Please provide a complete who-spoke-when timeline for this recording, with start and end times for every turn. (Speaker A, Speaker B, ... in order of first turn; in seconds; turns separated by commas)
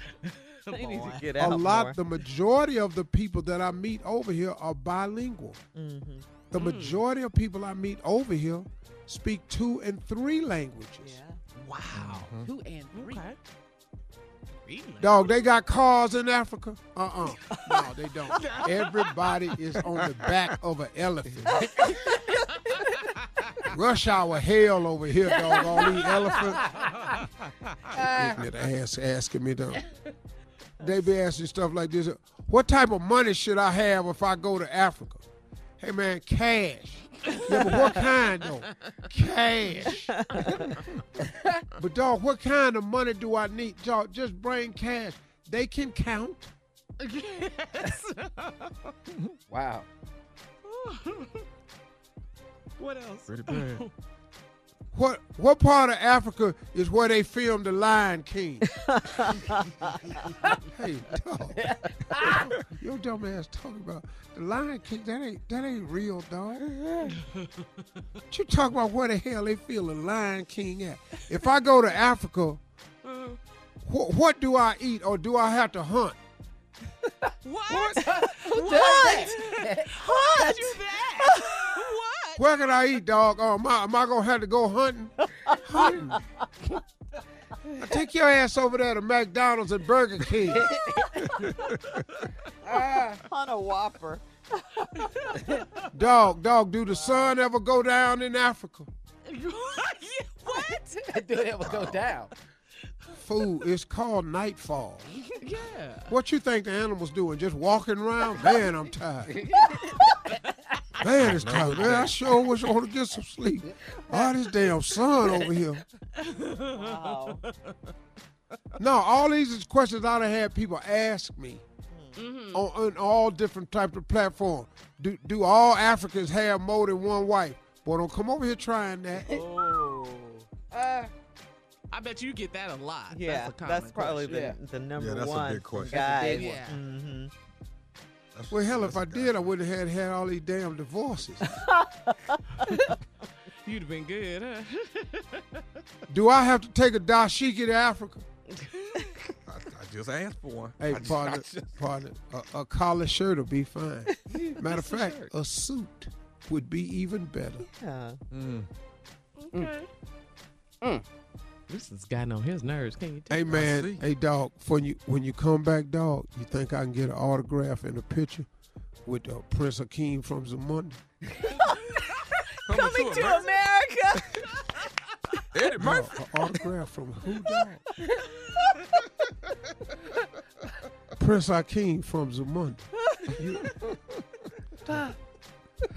Speaker A: 0.7-1.2, Speaker B: 0.7-1.9, Speaker C: 1.4-5.6, Speaker B: 5.7-6.3, Speaker C: 6.5-11.2, Speaker A: 6.5-7.0, Speaker B: 11.0-11.4, Speaker A: 11.6-12.3, Speaker D: 11.9-12.5, Speaker E: 12.4-13.3, Speaker A: 12.9-13.4, Speaker A: 14.7-15.3, Speaker C: 15.0-21.7, Speaker A: 18.3-19.1, Speaker B: 21.5-22.9, Speaker C: 23.7-26.6, Speaker E: 25.9-27.1, Speaker E: 27.9-28.4, Speaker C: 28.0-29.8, Speaker C: 30.8-35.2, Speaker C: 35.8-40.2, Speaker B: 40.1-40.6, Speaker C: 41.8-46.5, Speaker A: 47.1-48.0, Speaker E: 49.5-49.9, Speaker A: 50.7-51.2, Speaker A: 52.8-53.8, Speaker D: 53.3-53.8, Speaker C: 54.9-58.7, Speaker B: 58.9-60.0, Speaker C: 60.7-66.6, Speaker E: 61.7-62.5, Speaker C: 68.3-72.6, Speaker A: 73.1-73.4, Speaker C: 73.8-76.2, Speaker A: 77.4-82.4, Speaker E: 77.7-79.9, Speaker B: 78.0-79.4, Speaker B: 80.0-81.6, Speaker C: 82.3-86.2, Speaker B: 85.4-86.0, Speaker C: 87.8-90.7, Speaker E: 90.5-91.2, Speaker E: 92.7-93.2, Speaker B: 92.7-95.3, Speaker C: 95.9-98.9, Speaker A: 99.3-100.8, Speaker E: 101.0-102.3, Speaker D: 101.6-102.0, Speaker C: 103.1-105.1, Speaker A: 105.4-106.1, Speaker C: 106.1-109.4, Speaker E: 109.3-109.8, Speaker C: 111.0-115.8, Speaker D: 111.2-112.2, Speaker A: 116.4-116.9, Speaker B: 116.7-117.4, Speaker C: 118.8-121.6, Speaker B: 121.9-122.2, Speaker A: 122.2-122.6, Speaker C: 122.5-129.4, Speaker B: 129.5-130.4, Speaker E: 130.7-131.1, Speaker A: 131.9-134.5, Speaker B: 133.1-137.3, Speaker E: 134.3-134.6, Speaker D: 135.0-136.0, Speaker E: 135.9-136.8, Speaker D: 138.3-139.4, Speaker C: 138.5-141.6, Speaker B: 141.5-142.8, Speaker A: 143.7-144.8, Speaker C: 146.1-148.2, Speaker D: 149.5-151.7, Speaker C: 150.8-157.7, Speaker A: 154.6-155.3, Speaker B: 157.6-158.2, Speaker D: 158.3-158.7, Speaker A: 159.4-159.8, Speaker A: 161.7-163.4, Speaker C: 163.3-168.5, Speaker D: 163.5-164.0, Speaker C: 169.0-171.0, Speaker B: 171.5-174.7, Speaker D: 172.7-173.5, Speaker D: 175.5-176.1, Speaker C: 175.8-177.8, Speaker C: 181.2-183.7